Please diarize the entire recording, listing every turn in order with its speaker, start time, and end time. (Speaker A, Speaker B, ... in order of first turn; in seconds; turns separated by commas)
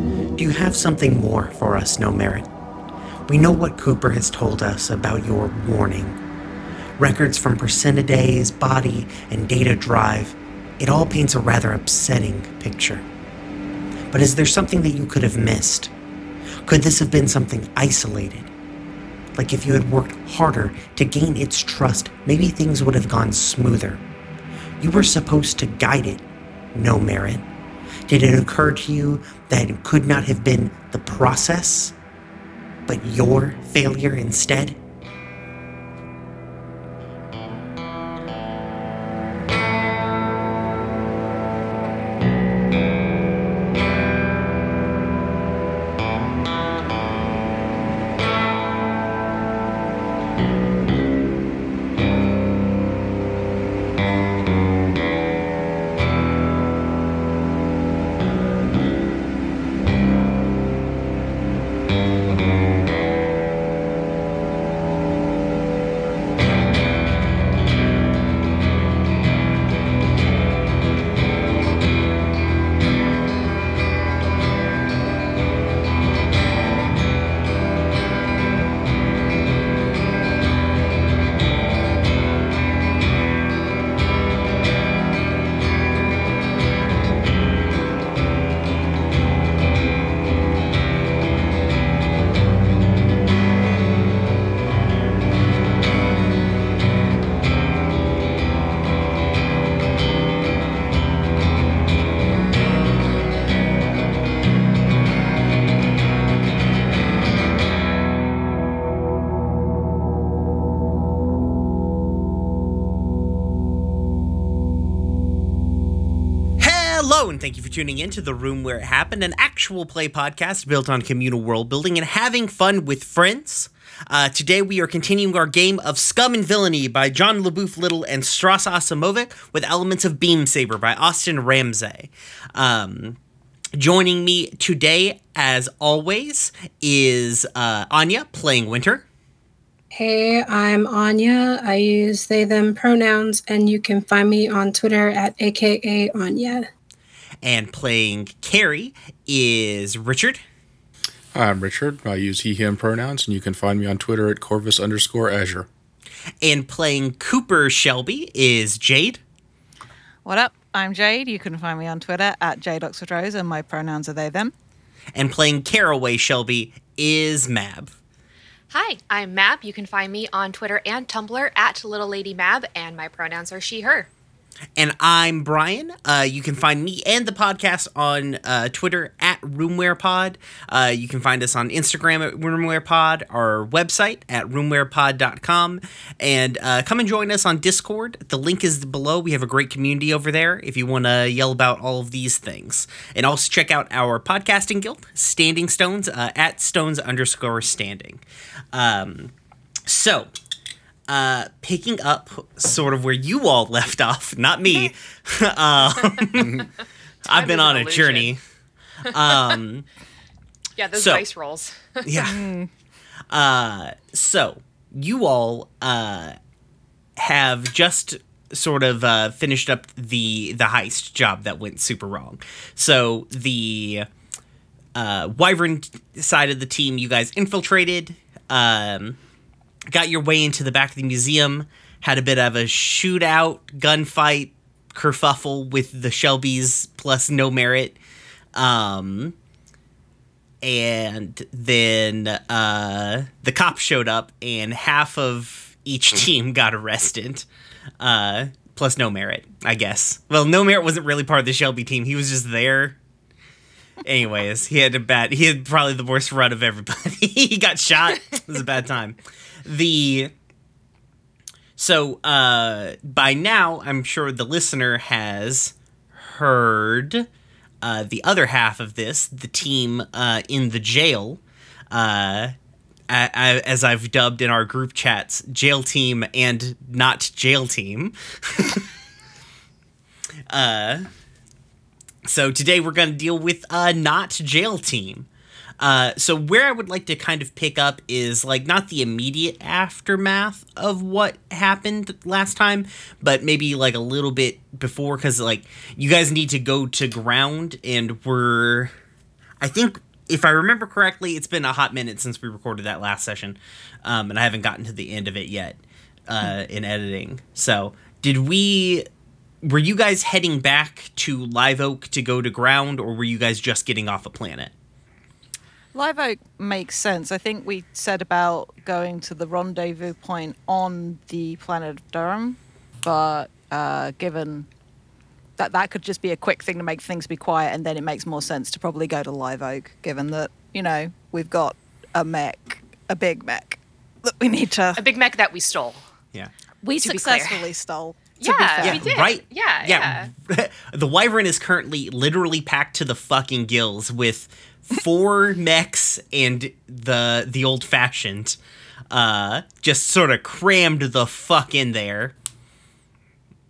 Speaker A: 0.4-2.5, Speaker A: 3.3-6.2, Speaker A: 7.0-13.1, Speaker A: 14.1-15.9, Speaker A: 16.7-18.5, Speaker A: 19.4-24.0, Speaker A: 24.8-26.2, Speaker A: 26.8-27.4, Speaker A: 28.1-31.9, Speaker A: 32.9-34.8, Speaker A: 116.6-133.2, Speaker A: 133.8-139.1, Speaker B: 139.9-146.7, Speaker A: 147.4-150.4, Speaker C: 151.3-155.7, Speaker A: 156.4-159.2, Speaker D: 160.2-164.5, Speaker A: 165.1-167.9, Speaker E: 168.7-174.1, Speaker A: 174.8-198.2, Speaker A: 198.7-199.3, Speaker A: 199.9-200.3, Speaker A: 201.1-206.7, Speaker A: 207.3-208.4, Speaker E: 207.3-208.3, Speaker A: 209.1-209.9, Speaker E: 209.3-209.6, Speaker E: 210.8-212.2, Speaker A: 210.9-211.2, Speaker A: 212.1-212.4, Speaker D: 212.2-212.7, Speaker A: 213.3-216.4, Speaker A: 217.2-224.1, Speaker A: 224.9-229.2, Speaker A: 229.9-238.0, Speaker A: 238.6-239.4, Speaker A: 240.6-247.5, Speaker A: 248.0-253.0, Speaker A: 254.1-260.3, Speaker A: 261.8-267.3, Speaker A: 267.8-272.5, Speaker A: 273.1-278.9, Speaker A: 280.5-281.1, Speaker A: 282.2-285.3, Speaker A: 285.8-298.9, Speaker A: 299.6-309.1, Speaker A: 309.6-314.7, Speaker D: 315.9-324.7, Speaker D: 325.6-335.0, Speaker E: 335.0-336.0, Speaker D: 336.8-339.1, Speaker E: 337.0-337.7, Speaker E: 338.4-340.3, Speaker A: 338.8-348.6, Speaker A: 349.1-352.4